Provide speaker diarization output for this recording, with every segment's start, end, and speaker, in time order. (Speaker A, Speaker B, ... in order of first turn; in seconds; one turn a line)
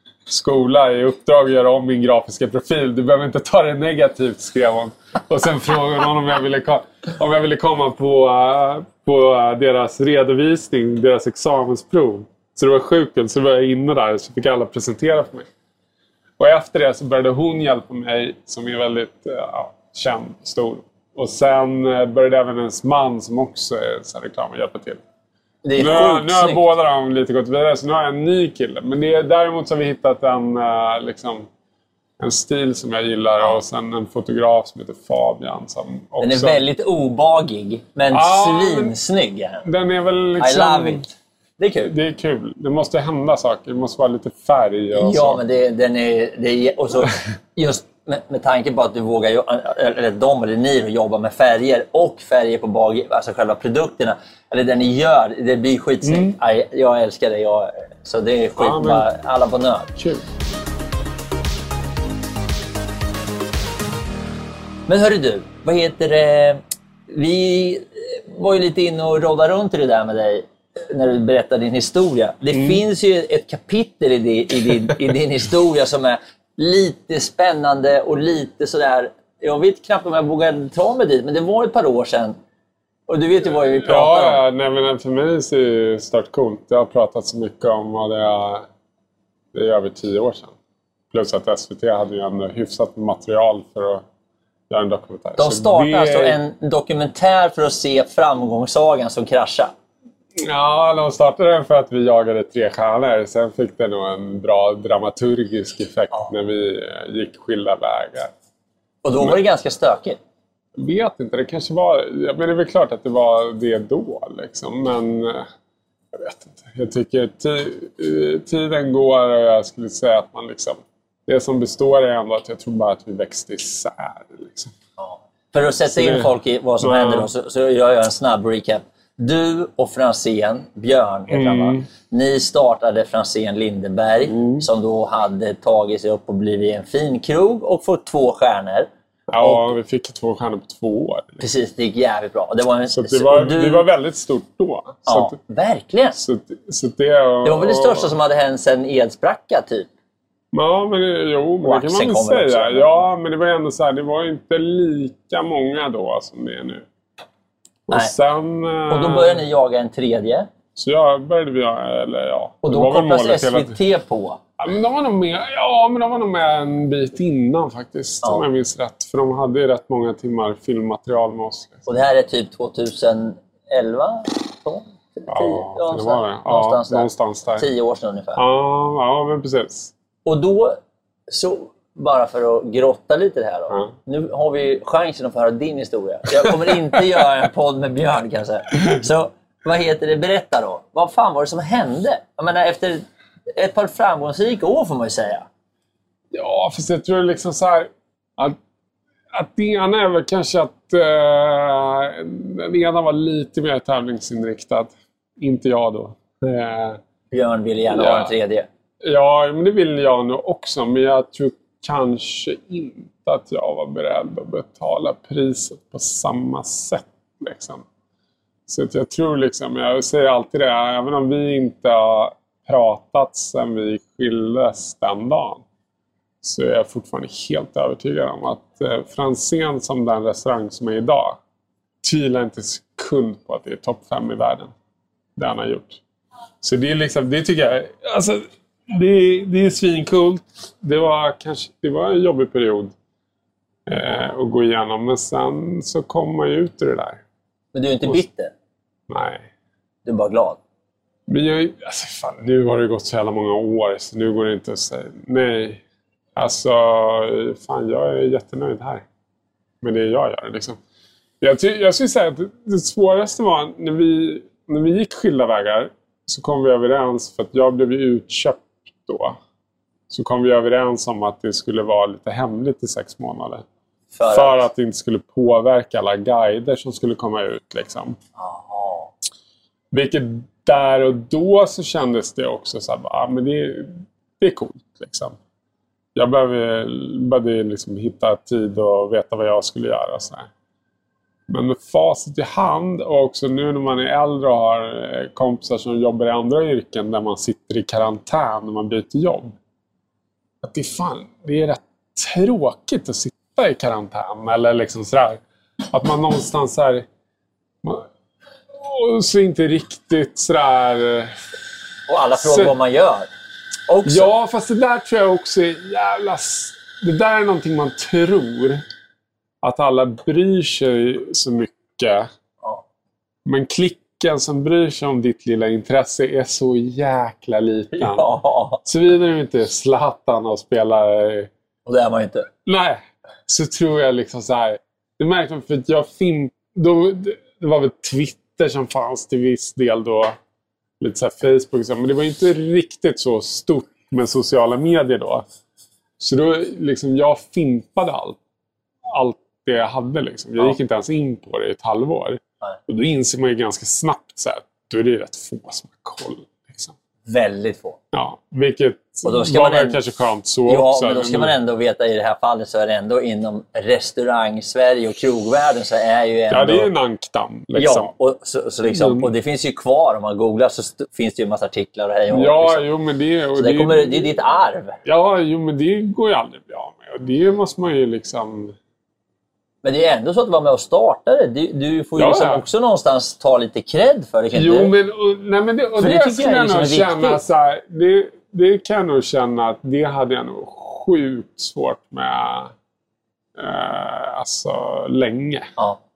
Speaker A: 0.3-15.5
Speaker A: 16.4-25.0
Speaker B: 25.6-26.6
Speaker A: 25.8-31.5
Speaker A: 32.2-36.6
Speaker B: 36.2-39.7
Speaker A: 38.1-39.0
Speaker A: 39.6-41.1
Speaker B: 40.4-41.9
Speaker A: 41.8-45.4
Speaker B: 45.0-59.9
Speaker A: 56.0-56.4
Speaker A: 58.6-59.1
Speaker A: 60.0-60.2
Speaker B: 64.9-82.4
Speaker A: 72.5-72.8
Speaker B: 83.1-84.4
Speaker A: 83.8-88.7
Speaker A: 89.5-90.5
Speaker A: 91.1-94.0
Speaker A: 94.7-96.4
Speaker B: 95.4-99.7
Speaker A: 100.4-108.3
Speaker B: 109.0-110.2
Speaker A: 110.8-115.5
Speaker A: 116.1-124.7
Speaker B: 125.0-138.9
Speaker A: 125.9-127.3
Speaker A: 131.3-131.9
Speaker A: 134.3-134.7
Speaker A: 139.3-141.4
Speaker B: 139.4-139.7
Speaker B: 141.4-143.9
Speaker A: 142.9-145.3
Speaker B: 145.1-146.2
Speaker A: 146.2-148.2
Speaker B: 147.4-149.9
Speaker A: 150.5-156.9
Speaker B: 151.6-153.0
Speaker A: 157.9-159.4
Speaker B: 158.9-160.5
Speaker A: 160.8-163.8
Speaker B: 162.6-164.4
Speaker A: 164.6-171.8
Speaker B: 171.9-178.4
Speaker A: 175.3-177.7
Speaker A: 178.3-179.9
Speaker B: 180.2-195.5
Speaker A: 196.3-198.6
Speaker A: 199.3-207.0
Speaker B: 207.3-208.7
Speaker A: 207.9-208.3
Speaker A: 209.0-217.8
Speaker A: 218.7-225.6
Speaker A: 226.4-231.4
Speaker A: 232.0-234.7
Speaker A: 235.4-236.0
Speaker A: 236.6-242.9
Speaker A: 243.9-247.2
Speaker B: 247.7-248.5
Speaker A: 249.1-249.5
Speaker B: 250.1-250.6
Speaker A: 251.3-255.8
Speaker A: 256.4-259.1
Speaker A: 259.8-260.8
Speaker A: 261.4-269.4
Speaker A: 270.1-273.6
Speaker B: 274.1-274.7
Speaker A: 274.3-278.2
Speaker B: 278.4-279.1
Speaker A: 279.9-285.4
Speaker A: 286.1-290.5
Speaker A: 291.5-299.6
Speaker A: 300.6-307.1
Speaker A: 308.8-311.4
Speaker B: 312.1-313.3
Speaker A: 312.4-312.8
Speaker B: 313.9-314.3
Speaker A: 314.1-318.8
Speaker A: 319.6-322.3
Speaker A: 323.4-328.3
Speaker B: 327.9-328.8
Speaker A: 328.8-331.5
Speaker B: 331.9-332.5
Speaker A: 332.6-340.4
Speaker A: 341.0-345.4
Speaker A: 346.2-348.4
Speaker A: 349.1-356.9
Speaker B: 357.3-358.0
Speaker A: 358.1-361.6
Speaker B: 359.2-360.0
Speaker B: 360.7-366.9
Speaker A: 366.5-368.1
Speaker B: 367.7-372.8
Speaker A: 368.9-369.3
Speaker A: 372.3-374.3
Speaker B: 373.6-375.0
Speaker A: 375.1-378.8
Speaker B: 379.8-384.9
Speaker A: 382.2-382.6
Speaker A: 384.5-392.7
Speaker B: 386.0-387.4
Speaker A: 393.6-395.7